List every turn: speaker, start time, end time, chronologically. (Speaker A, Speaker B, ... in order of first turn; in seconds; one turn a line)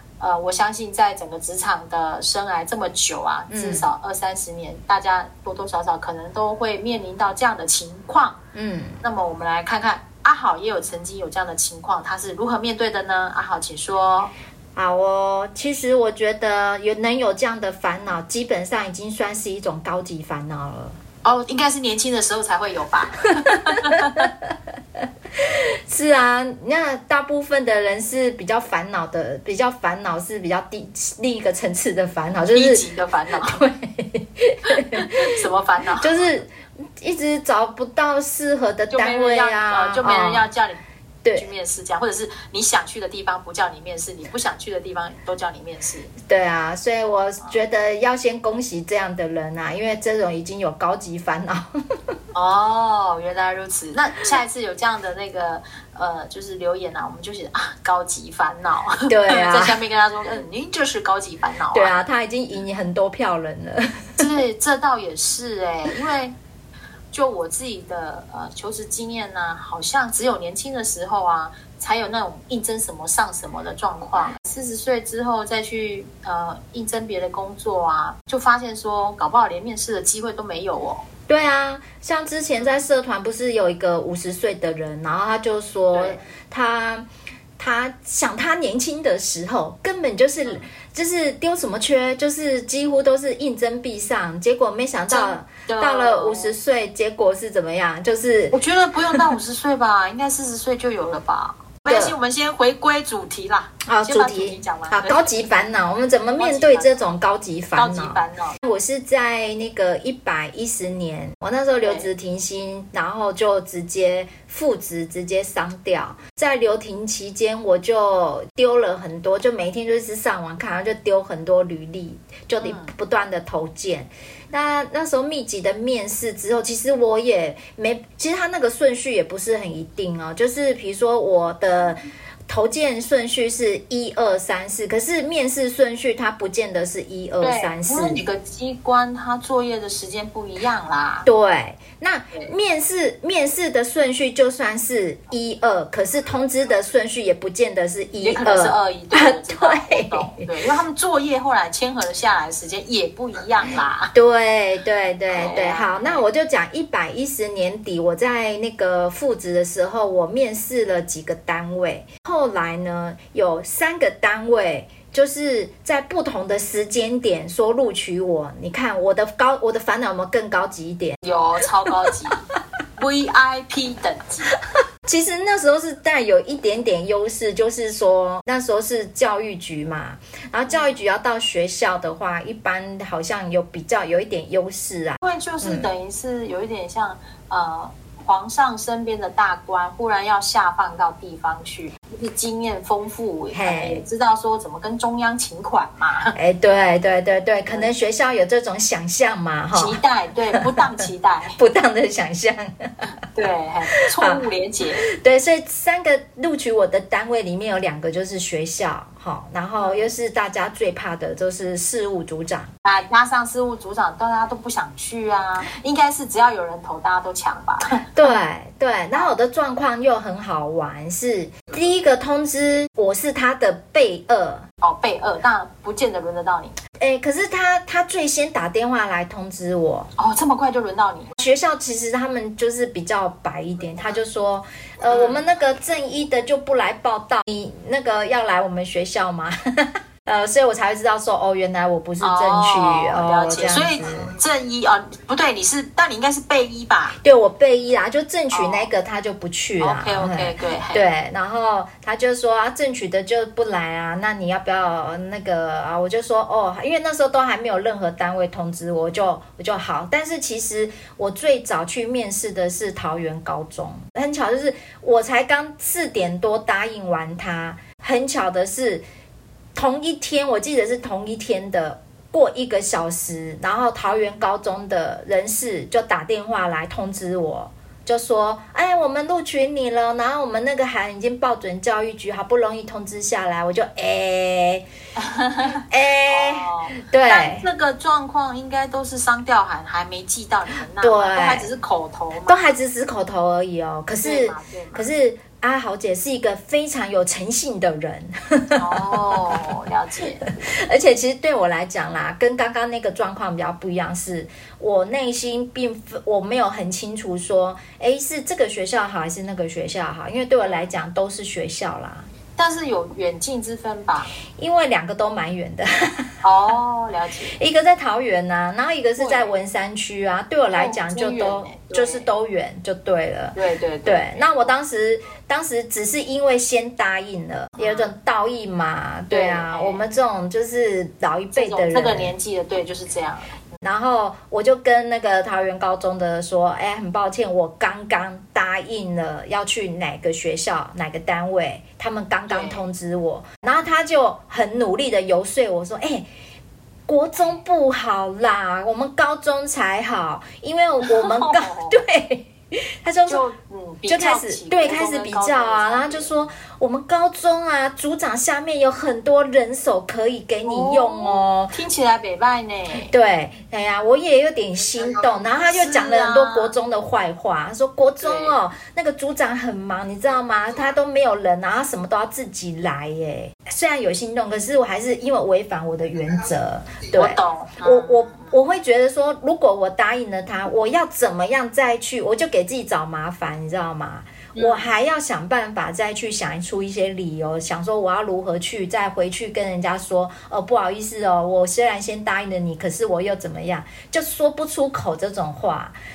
Speaker A: 0.2-8.4
Speaker B: 3.5-3.9
Speaker B: 8.5-9.0
Speaker A: 9.0-14.3
Speaker B: 14.7-21.0
Speaker A: 21.2-24.3
Speaker B: 25.4-32.8
Speaker A: 32.5-33.6
Speaker B: 33.4-35.2
Speaker A: 34.8-36.2
Speaker B: 36.0-40.5
Speaker A: 38.9-40.8
Speaker B: 41.2-41.5
Speaker A: 41.3-46.1
Speaker B: 46.2-51.7
Speaker A: 52.3-62.0
Speaker B: 59.1-59.8
Speaker B: 61.7-64.2
Speaker A: 64.2-66.3
Speaker A: 67.1-81.0
Speaker B: 81.3-87.1
Speaker A: 85.9-86.2
Speaker B: 87.6-98.5
Speaker A: 95.1-96.5
Speaker A: 98.5-105.7
Speaker B: 101.9-102.2
Speaker B: 103.8-138.2
Speaker A: 106.4-107.0
Speaker A: 107.7-108.6
Speaker A: 111.8-112.1
Speaker A: 122.6-122.9
Speaker A: 137.4-141.3
Speaker B: 141.2-150.4
Speaker A: 148.2-154.1
Speaker B: 154.1-171.2
Speaker A: 155.3-156.2
Speaker A: 171.2-172.4
Speaker A: 173.0-174.5
Speaker B: 175.1-185.9
Speaker A: 180.7-181.0
Speaker A: 185.2-196.3
Speaker B: 193.5-194.0
Speaker B: 196.3-200.0
Speaker A: 199.7-201.6
Speaker B: 201.6-203.1
Speaker A: 203.3-205.0
Speaker B: 204.2-204.4
Speaker B: 205.2-212.7
Speaker A: 209.8-210.1
Speaker A: 212.8-218.0
Speaker B: 218.1-224.7
Speaker A: 224.8-226.8
Speaker B: 227.0-230.1
Speaker A: 230.2-231.3
Speaker B: 231.4-244.3
Speaker A: 235.1-235.5
Speaker A: 242.2-247.2
Speaker B: 247.2-269.0
Speaker A: 248.5-248.9
Speaker A: 249.8-251.1
Speaker B: 269.7-284.8
Speaker A: 285.2-292.7
Speaker B: 285.9-287.7
Speaker B: 291.0-291.7
Speaker B: 292.4-299.1
Speaker A: 294.2-295.1
Speaker A: 298.8-300.4
Speaker B: 300.4-312.3
Speaker A: 310.6-310.9
Speaker A: 312.6-314.3
Speaker B: 314.5-316.3
Speaker A: 316.4-317.6
Speaker B: 317.6-332.3
Speaker A: 319.2-319.5
Speaker A: 320.7-322.3
Speaker A: 323.6-324.4
Speaker A: 327.8-328.1
Speaker A: 329.3-330.0
Speaker A: 331.5-333.6
Speaker B: 333.8-346.3
Speaker A: 342.5-342.8
Speaker B: 347.1-353.4
Speaker A: 351.0-352.0
Speaker A: 353.3-356.5
Speaker B: 354.1-361.7
Speaker A: 360.6-363.1
Speaker B: 363.0-395.9
Speaker A: 365.6-366.8
Speaker A: 368.2-368.6
Speaker A: 377.1-378.6
Speaker A: 384.5-384.9